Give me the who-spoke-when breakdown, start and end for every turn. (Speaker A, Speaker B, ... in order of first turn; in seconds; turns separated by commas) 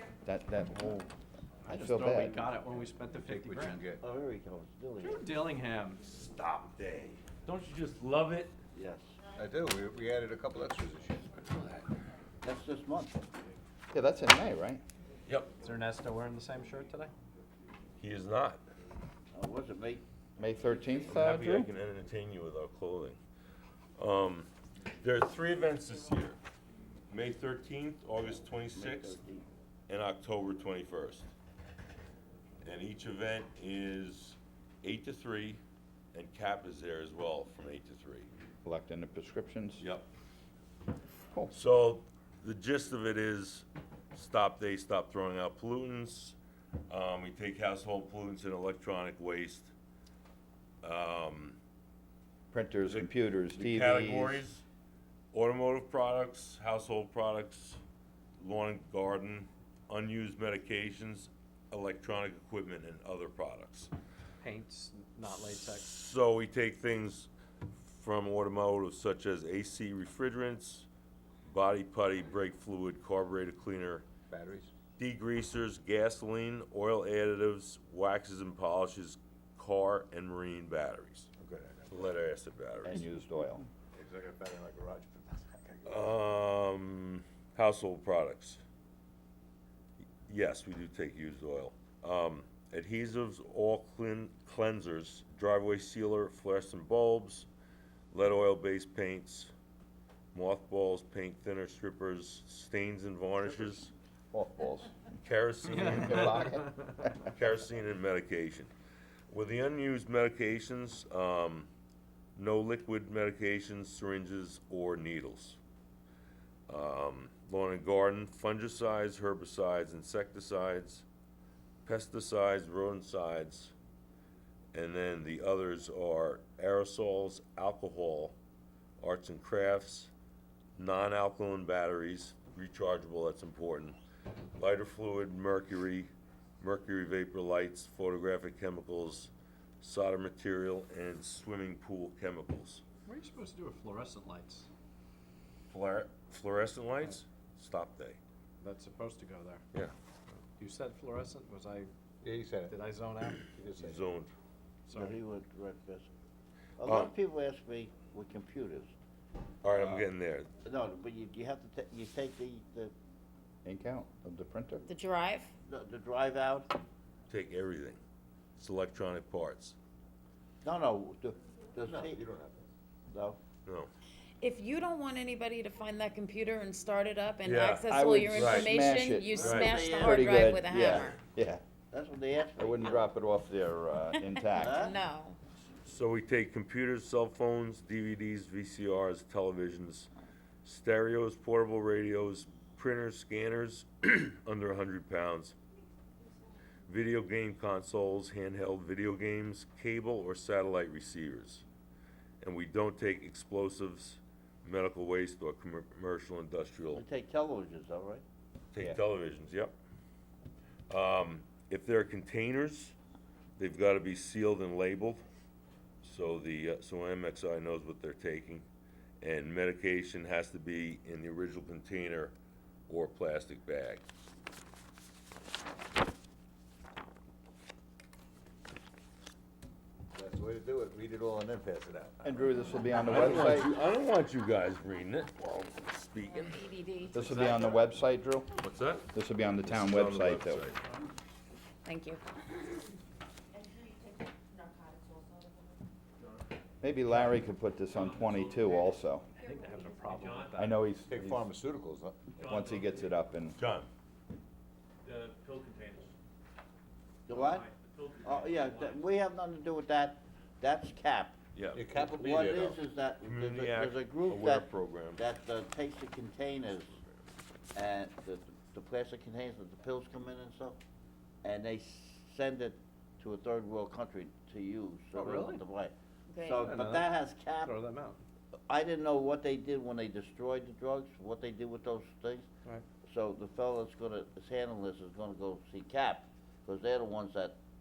Speaker A: 0.2-1.1, Speaker B: 1.6-3.9, Speaker A: 1.6-2.5, Speaker C: 3.0-4.0, Speaker D: 4.0-5.3, Speaker B: 5.0-6.1, Speaker E: 6.1-8.5, Speaker D: 8.7-9.2, Speaker C: 9.3-11.9, Speaker D: 12.4-13.2, Speaker A: 13.9-14.8, Speaker E: 15.3-15.5, Speaker B: 15.6-17.1, Speaker E: 18.0-18.6, Speaker D: 19.3-20.0, Speaker A: 20.4-21.7, Speaker D: 20.6-21.1, Speaker E: 21.1-23.2, Speaker E: 24.0-26.4, Speaker E: 27.1-29.2, Speaker D: 28.7-29.4, Speaker E: 29.9-31.3, Speaker E: 32.6-35.6, Speaker E: 36.1-38.3, Speaker A: 38.6-39.8, Speaker E: 39.8-40.0, Speaker E: 41.5-46.4, Speaker E: 46.9-49.7, Speaker E: 50.8-51.6, Speaker A: 52.5-54.4, Speaker E: 52.9-54.6, Speaker E: 55.3-57.8, Speaker E: 58.4-63.9, Speaker B: 64.4-65.9, Speaker E: 65.3-70.9, Speaker E: 71.5-74.1, Speaker C: 74.3-74.7, Speaker E: 75.0-81.3, Speaker C: 81.3-82.2, Speaker E: 81.9-83.0, Speaker A: 82.8-83.7, Speaker C: 83.9-86.2, Speaker E: 85.8-88.6, Speaker E: 90.2-97.5, Speaker E: 98.1-99.5, Speaker E: 100.3-103.9, Speaker A: 104.3-104.9, Speaker E: 105.2-106.4, Speaker B: 105.7-106.9, Speaker A: 105.8-107.1, Speaker E: 107.2-108.7, Speaker E: 109.3-111.7, Speaker E: 112.3-115.6, Speaker E: 116.7-121.0, Speaker E: 121.8-123.7, Speaker E: 124.7-128.3, Speaker E: 129.0-130.1, Speaker E: 130.8-134.0, Speaker E: 134.6-142.8, Speaker B: 143.1-144.7, Speaker E: 145.7-148.2, Speaker B: 148.6-149.6, Speaker B: 150.6-151.9, Speaker C: 152.2-152.8, Speaker B: 152.7-153.6, Speaker C: 153.5-154.0, Speaker E: 153.8-154.3, Speaker B: 154.9-155.2, Speaker D: 154.9-156.1, Speaker D: 156.8-158.9, Speaker E: 156.8-157.1, Speaker E: 159.6-160.5, Speaker D: 159.7-160.1, Speaker D: 160.6-162.9, Speaker A: 163.6-164.8, Speaker F: 164.8-165.5, Speaker D: 165.7-166.7, Speaker E: 167.3-168.0, Speaker E: 168.6-169.8, Speaker D: 170.6-172.2, Speaker C: 171.8-172.6, Speaker D: 173.1-173.4, Speaker E: 173.6-173.9, Speaker F: 174.4-181.2, Speaker E: 177.4-178.7, Speaker A: 177.9-181.6, Speaker D: 179.3-181.1, Speaker E: 179.4-179.8, Speaker D: 181.9-183.1, Speaker A: 182.6-184.8, Speaker F: 184.1-185.4, Speaker D: 184.6-185.0, Speaker E: 185.8-190.1, Speaker E: 190.6-195.6, Speaker E: 196.9-201.6, Speaker E: 202.4-207.1, Speaker D: 206.9-208.2, Speaker E: 208.7-209.7, Speaker E: 210.9-212.9, Speaker E: 213.6-215.2, Speaker E: 216.0-218.7, Speaker E: 219.2-222.3, Speaker E: 222.9-224.0, Speaker C: 230.1-233.6, Speaker A: 232.2-233.7, Speaker E: 233.0-236.6, Speaker F: 236.3-237.2, Speaker A: 237.1-238.5, Speaker B: 237.1-237.9, Speaker E: 238.6-239.1, Speaker A: 239.1-240.7, Speaker E: 239.6-240.9, Speaker F: 241.8-242.2, Speaker A: 246.8-249.3, Speaker B: 247.1-247.4, Speaker G: 247.9-249.0, Speaker B: 249.3-250.8, Speaker G: 250.2-250.6, Speaker A: 250.5-251.4, Speaker C: 251.1-252.6, Speaker G: 252.4-253.2, Speaker A: 252.4-253.6, Speaker E: 253.5-253.9, Speaker G: 255.0-256.1, Speaker D: 257.3-257.7, Speaker G: 257.3-259.0, Speaker D: 258.2-261.4, Speaker E: 261.5-261.9, Speaker C: 261.7-262.8, Speaker D: 261.9-267.0, Speaker E: 263.2-265.2, Speaker D: 267.7-270.8, Speaker D: 271.4-277.8, Speaker B: 275.1-275.6, Speaker F: 276.3-276.7, Speaker B: 276.6-278.2, Speaker D: 278.7-282.5, Speaker D: 283.0-287.6